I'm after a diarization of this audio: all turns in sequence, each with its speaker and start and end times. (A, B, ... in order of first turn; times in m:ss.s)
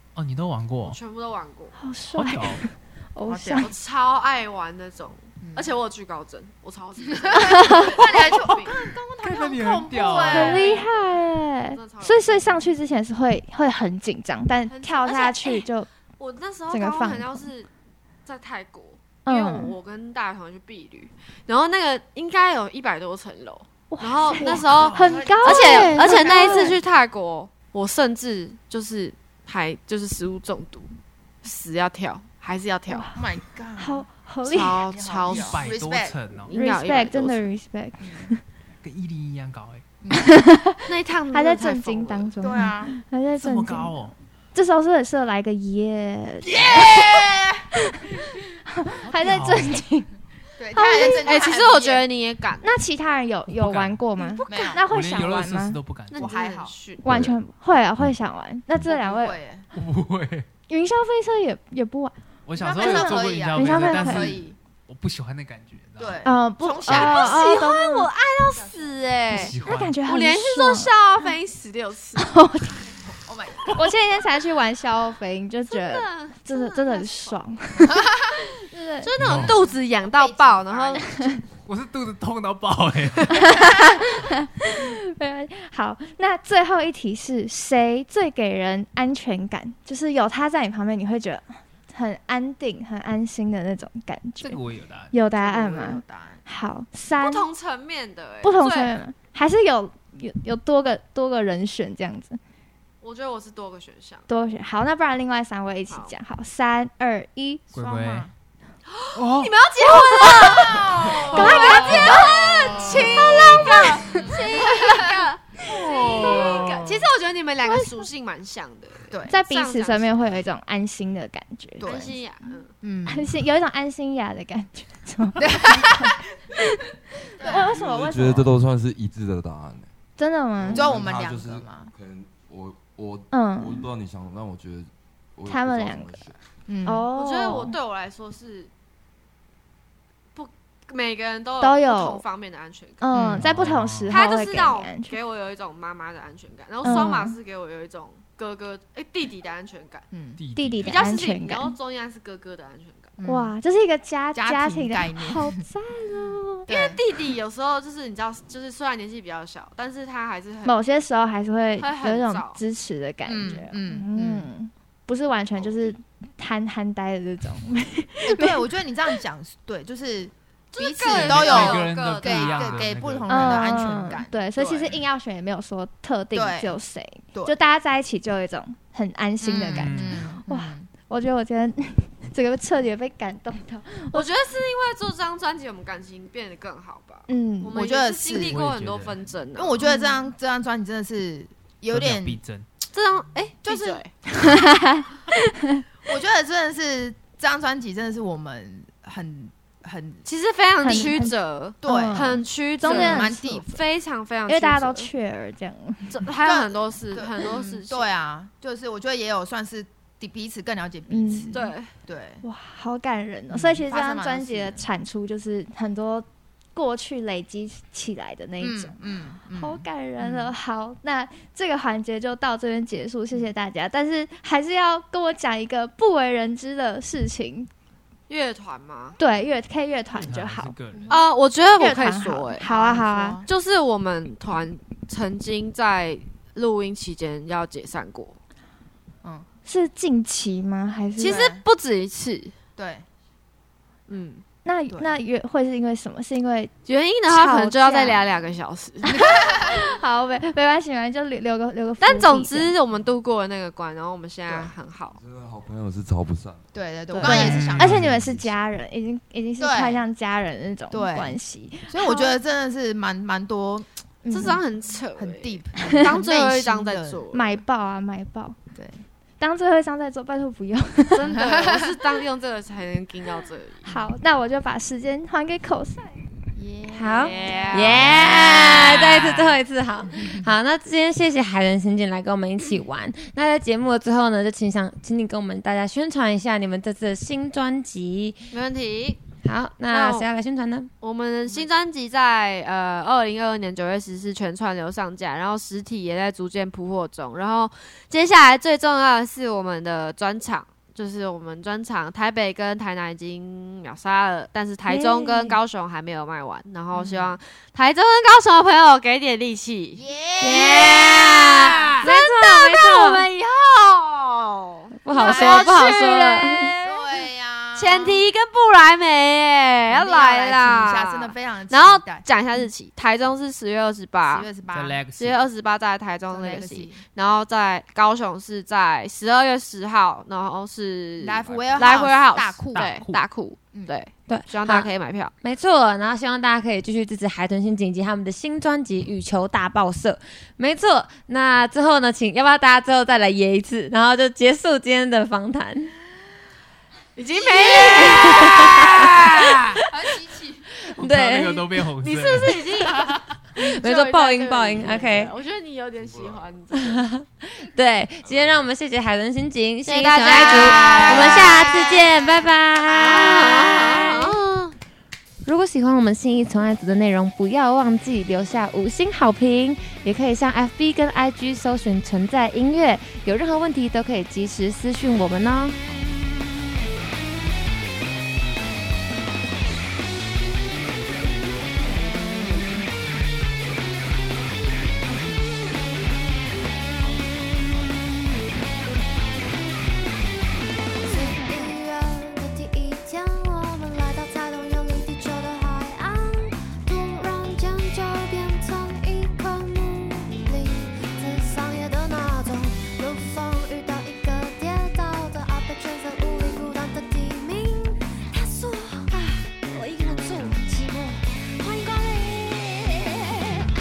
0:00.2-0:01.0 A
0:00.8-0:01.8 B
0:01.8-0:03.7 C
0:02.1-0:02.6 A
0:03.3-0:03.7 D
0:03.6-0:08.9 B
0:05.4-0:05.7 D
0:07.2-0:10.9 D
0:07.4-0:08.0 C
0:09.2-0:10.6 A
0:09.9-0:11.1 B
0:10.2-0:15.9 C
0:11.7-0:12.6 B
0:14.7-0:15.7 B
0:16.2-0:17.7 B
0:16.7-0:17.4 C
0:18.2-0:30.9 B
0:19.2-0:19.7 C
0:23.9-0:26.8 C
0:24.4-0:25.2 A
0:24.4-0:26.8 D
0:31.4-0:33.1 B
0:32.9-0:33.2 C
0:33.2-0:36.2 D
0:33.8-0:34.8 C
0:34.4-0:35.6 B
0:35.3-0:36.5 A
0:36.5-0:37.4 B
0:36.5-0:38.4 C
0:38.0-0:38.3 D
0:38.8-0:39.8 A
0:40.0-0:40.4 D
0:40.1-0:47.1 C
0:40.9-0:42.3 B
0:42.4-0:43.0 D
0:43.4-0:44.1 A
0:46.4-0:47.3 A
0:46.6-0:47.7 D
0:48.7-0:50.1 C
0:49.0-0:49.8 A
0:50.6-0:52.0 D
0:50.7-0:51.3 C
0:50.8-0:52.7 B
0:52.6-0:55.8 C
0:53.5-0:54.0 A
0:54.2-0:54.8 B
0:54.4-0:54.9 D
0:54.8-0:56.4 A
0:56.1-0:57.3 B
0:56.1-0:56.7 D
0:57.0-0:59.4 C
0:58.8-0:59.6 D
0:59.7-1:00.4 A
1:00.7-1:02.2 C
1:02.4-1:06.3 A
1:02.6-1:04.6 D
1:02.8-1:04.4 C
1:06.0-1:07.6 D
1:06.2-1:08.1 C
1:06.8-1:12.3 B
1:08.6-1:09.5 D
1:09.3-1:10.0 A
1:09.6-1:11.3 C
1:12.2-1:12.9 C
1:13.2-1:13.9 D
1:13.7-1:19.4 C
1:15.7-1:17.4 B
1:19.0-1:21.2 B
1:19.2-1:19.6 A
1:19.6-1:21.4 D
1:21.2-1:21.4 C
1:21.6-1:23.7 A
1:23.4-1:34.6 C
1:34.4-1:35.1 A
1:35.1-1:37.4 C
1:35.3-1:36.4 D
1:37.2-1:39.0 B
1:38.4-1:42.4 C
1:43.0-1:44.3 B
1:44.3-1:47.6 C
1:45.9-1:46.2 B
1:47.7-1:48.3 A
1:47.8-1:48.3 D
1:48.9-2:00.3 B
1:49.1-1:49.6 A
1:50.1-1:53.9 A
1:50.8-1:55.2 D
1:51.3-1:52.4 C
1:53.6-1:54.4 C
1:55.6-1:56.3 C
1:55.7-1:57.0 A
1:57.6-1:58.1 C
1:59.1-1:59.4 D
1:59.3-2:01.9 C
2:01.8-2:02.2 D
2:01.8-2:02.7 B
2:02.8-2:03.3 D
2:03.1-2:08.6 C
2:05.4-2:06.2 D
2:07.4-2:07.8 D
2:07.5-2:09.9 E
2:10.2-2:11.0 C
2:10.6-2:16.4 E
2:10.7-2:11.9 D
2:13.3-2:13.9 C
2:15.4-2:16.2 C
2:16.7-2:17.1 D
2:16.8-2:17.8 C
2:17.1-2:18.7 B
2:20.4-2:23.1 B
2:21.6-2:22.2 C
2:23.0-2:25.2 C
2:23.1-2:23.5 D
2:23.4-2:24.2 A
2:24.1-2:30.1 B
2:26.8-2:27.4 C
2:30.1-2:30.4 D
2:30.4-2:31.2 A
2:30.5-2:31.7 C
2:30.8-2:33.2 B
2:33.2-2:33.6 D
2:33.3-2:36.7 C
2:34.3-2:35.6 D
2:36.7-2:37.0 D
2:36.7-2:40.8 B
2:40.6-2:48.6 C
2:41.8-2:42.6 B
2:43.3-2:44.4 D
2:48.2-2:55.0 D
2:50.7-2:52.9 B
2:51.1-2:53.8 A
2:53.3-3:04.3 C
2:56.3-2:56.7 D
2:59.4-3:00.9 D
2:59.7-3:00.2 A
3:04.1-3:09.8 B
3:07.3-3:07.8 C
3:07.7-3:08.6 D
3:08.5-3:09.3 A
3:09.6-3:12.4 D
3:09.8-3:10.2 C
3:11.9-3:12.7 A
3:12.9-3:14.1 B
3:13.6-3:14.6 D
3:14.3-3:15.8 C
3:16.0-3:20.2 D
3:20.2-3:25.1 B
3:20.8-3:23.8 C
3:21.8-3:23.7 D
3:24.5-3:26.2 C
3:26.1-3:28.1 B
3:26.4-3:32.4 D
3:31.1-3:31.7 C
3:31.5-3:31.9 B
3:32.4-3:38.9 C
3:33.5-3:34.8 D
3:38.6-3:40.5 D
3:39.5-3:47.7 C
3:48.3-3:49.2 B
3:49.2-3:50.8 C
3:50.2-3:51.2 A
3:51.1-3:52.7 B
3:51.8-3:53.4 C
3:52.6-3:53.4 D
3:53.4-3:58.4 B
3:59.6-4:01.5 C
4:01.2-4:02.5 B
4:01.3-4:01.6 D
4:02.8-4:03.0 D
4:04.1-4:04.4 B
4:04.6-4:06.7 C
4:06.9-4:09.2 B
4:07.3-4:08.2 C
4:09.0-4:12.7 C
4:09.1-4:09.9 D
4:12.0-4:15.2 B
4:14.5-4:14.7 D
4:15.1-4:16.7 E
4:16.7-4:18.1 D
4:17.1-4:22.4 C
4:17.2-4:18.1 A
4:17.8-4:18.5 E
4:19.6-4:20.0 D
4:20.9-4:21.4 D
4:21.9-4:24.6 D
4:24.3-4:24.6 C
4:24.3-4:27.6 B
4:25.2-4:27.2 D
4:25.8-4:26.1 C
4:27.3-4:28.6 C
4:28.7-4:29.0 D
4:29.4-4:31.4 C
4:31.1-4:33.9 B
4:31.3-4:31.9 D
4:33.8-4:36.2 C
4:36.6-4:38.4 D
4:36.9-4:48.4 F
4:37.0-4:38.9 B
4:48.5-4:49.2 B
4:49.4-4:50.9 F
4:49.9-4:50.3 B
4:51.0-5:24.5 B
5:04.9-5:05.6 F
5:06.9-5:07.4 D
5:10.0-5:11.9 D
5:10.4-5:13.2 F
5:15.0-5:16.7 F
5:15.2-5:16.0 D
5:16.8-5:18.2 D
5:19.9-5:22.3 D
5:24.3-5:25.0 D
5:24.7-5:25.4 A
5:25.2-5:35.3 B
5:26.3-5:27.0 D
5:31.2-5:32.9 D
5:31.5-5:31.9 E
5:32.7-5:33.2 A
5:34.3-5:45.9 F
5:47.2-5:49.8 B
5:47.6-5:49.1 F
5:47.8-5:48.6 D
5:49.9-5:50.6 D
5:51.0-5:51.7 F
5:51.0-5:52.6 A
5:52.0-5:57.1 B
5:53.6-5:55.3 F
5:56.0-5:56.6 E
5:56.7-6:04.4 F
5:58.2-5:58.7 E
5:59.8-6:01.8 B
6:00.6-6:02.3 D
6:02.9-6:04.7 B
6:05.4-6:15.8 F
6:31.0-6:53.5 G